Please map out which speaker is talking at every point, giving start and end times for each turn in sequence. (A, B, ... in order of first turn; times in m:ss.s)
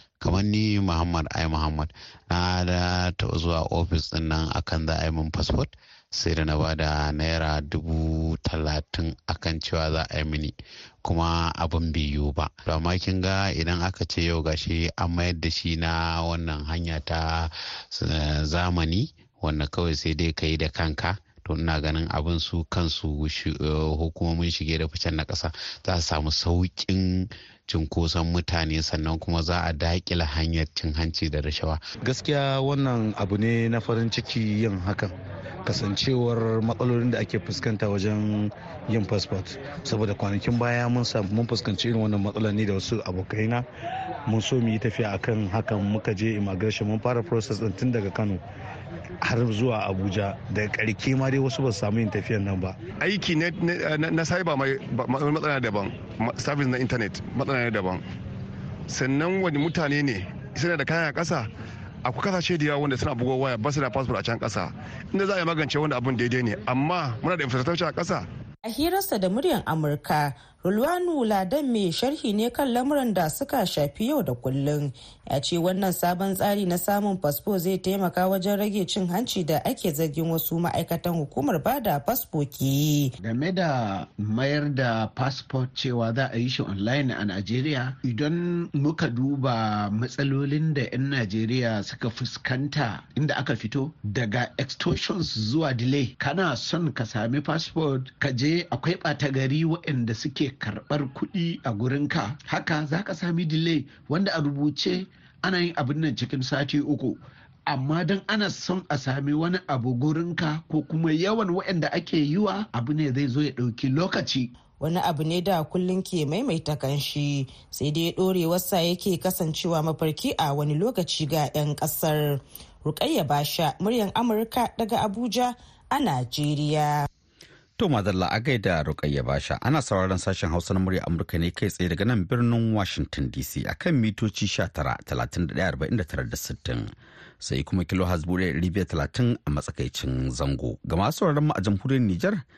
0:00.2-0:31.8 A
0:32.0-0:35.1 B
0:35.7-0:43.6 B
0:44.3-0:48.4 B
0:49.2-0:52.8 B
0:53.0-0:58.0 C
0:58.9-1:01.5 C
1:02.0-1:08.2 C
1:08.6-1:23.2 D
1:23.2-1:54.5 E
1:54.8-2:07.1 D
2:07.8-2:22.4 F